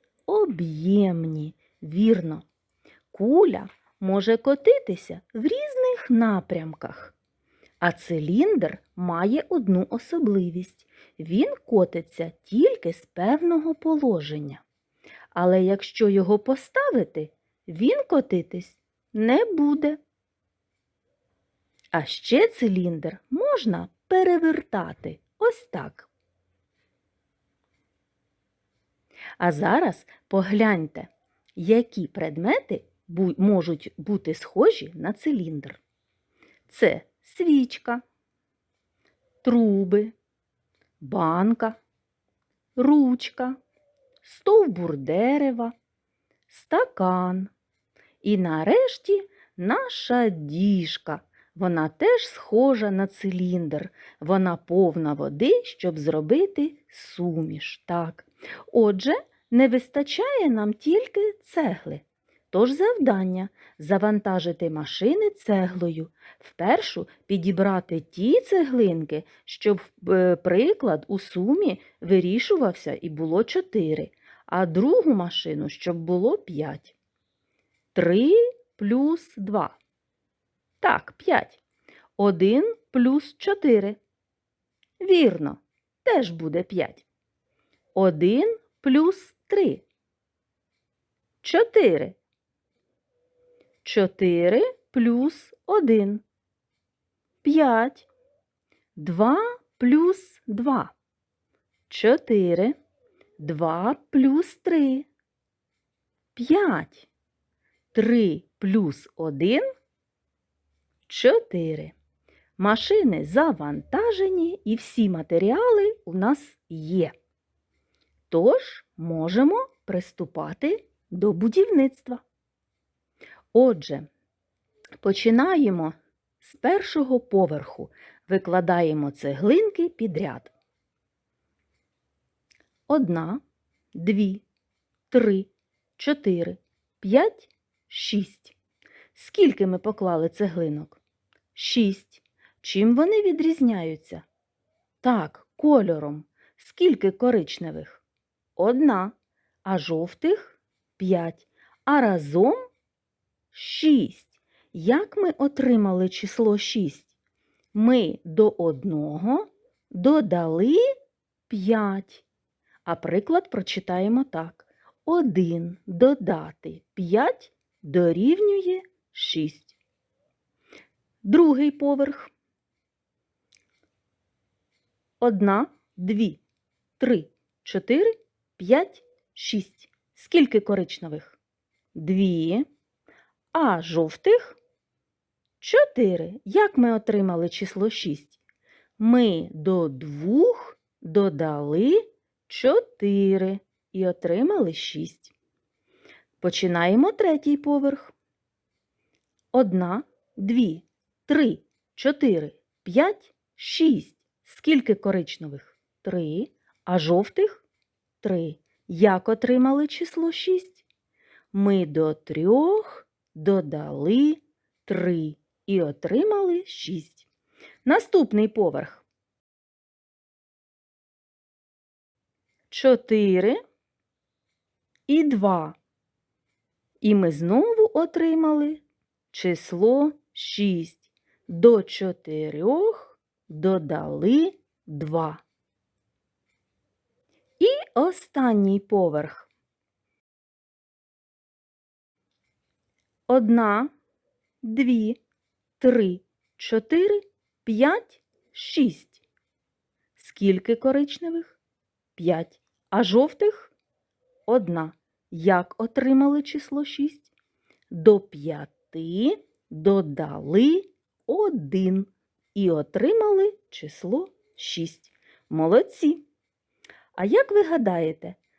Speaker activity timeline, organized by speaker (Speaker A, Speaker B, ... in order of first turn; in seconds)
Speaker A: 0.3-2.5, 3.1-7.1, 7.8-14.6, 15.3-20.0, 21.9-26.1, 29.4-35.8, 36.7-38.0, 39.4-40.1, 41.0-41.8, 42.8-43.6, 44.2-45.8, 46.5-47.5, 48.2-76.9, 78.0-79.8, 80.8-81.6, 82.2-84.0, 85.0-87.0, 87.9-89.8, 91.4-92.2, 93.8-96.2, 97.4-98.1, 99.0-100.9, 101.9-102.8, 103.4-105.1, 106.4-107.1, 107.9-109.7, 111.1-111.9, 112.6-117.1, 118.3-122.2, 123.5-124.1, 125.0-130.5, 132.9-133.4, 133.9-134.4, 135.1-138.6, 139.2-141.0, 141.6-144.2, 145.0-148.0, 148.6-152.7, 153.5-157.1, 157.7-160.8, 161.5-162.2, 162.8-169.8, 171.2-172.3, 175.2-176.4, 177.0-181.4, 181.9-182.7, 183.5-184.6, 185.6-188.4, 189.0-195.3, 196.4-198.1, 199.5-207.6, 208.2-210.8, 211.5-217.3, 217.8-219.0, 222.7-223.6, 225.1-225.8, 227.0-235.4, 237.6-239.5, 243.3-243.9, 244.6-245.2, 245.8-249.2, 250.2-251.6, 252.2-253.7, 254.5-257.3, 257.9-266.3, 267.2-268.4